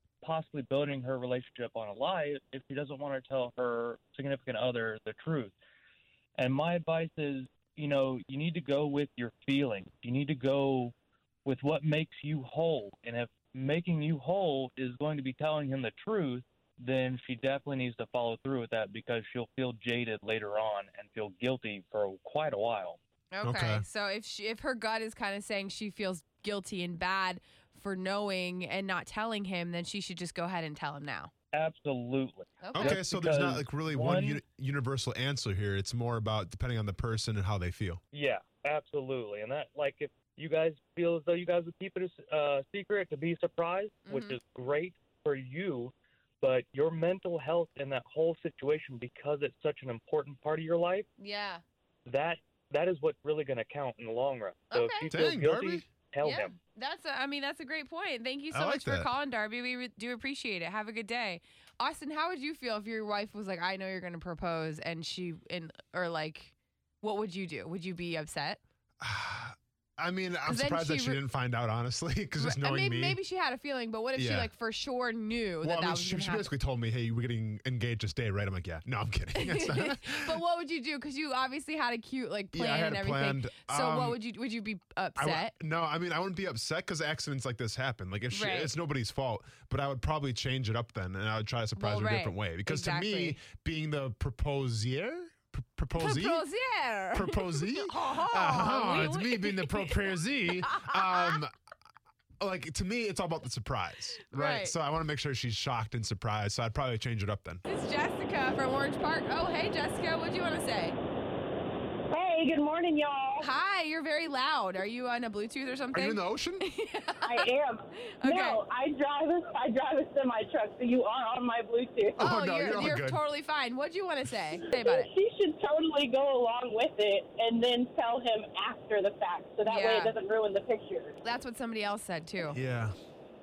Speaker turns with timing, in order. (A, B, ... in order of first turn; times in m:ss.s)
0:00.2-0:05.5 A
0:06.4-0:10.9 A
0:11.4-0:23.0 A
0:23.3-0:31.3 B
0:23.4-0:23.8 C
0:31.5-0:34.4 A
0:32.6-0:33.0 B
0:32.7-0:38.0 C
0:38.1-0:51.0 A
0:44.1-0:44.4 B
0:51.2-0:51.6 B
0:52.0-0:56.5 A
0:54.7-0:55.1 B
0:55.1-0:55.8 C
0:56.2-1:08.6 B
0:58.5-0:59.1 C
1:09.0-1:13.2 C
1:10.4-1:11.2 B
1:12.4-1:16.5 B
1:14.2-1:14.5 C
1:15.6-1:20.4 C
1:19.3-1:25.5 B
1:22.5-1:24.2 C
1:25.2-1:36.4 C
1:28.3-1:28.7 B
1:31.8-1:33.4 B
1:36.0-1:40.1 B
1:37.1-1:41.5 C
1:40.6-1:41.4 B
1:42.4-1:47.6 C
1:44.3-1:44.7 B
1:47.6-1:51.0 B
1:52.1-1:53.5 D
1:53.4-1:57.5 B
1:55.9-1:56.6 C
1:57.2-2:02.8 D
1:58.2-1:58.6 B
2:02.2-2:03.2 C
2:02.2-2:05.1 B
2:04.7-2:11.2 D
2:09.6-2:10.2 B
2:11.2-2:12.6 B
2:12.5-2:12.9 C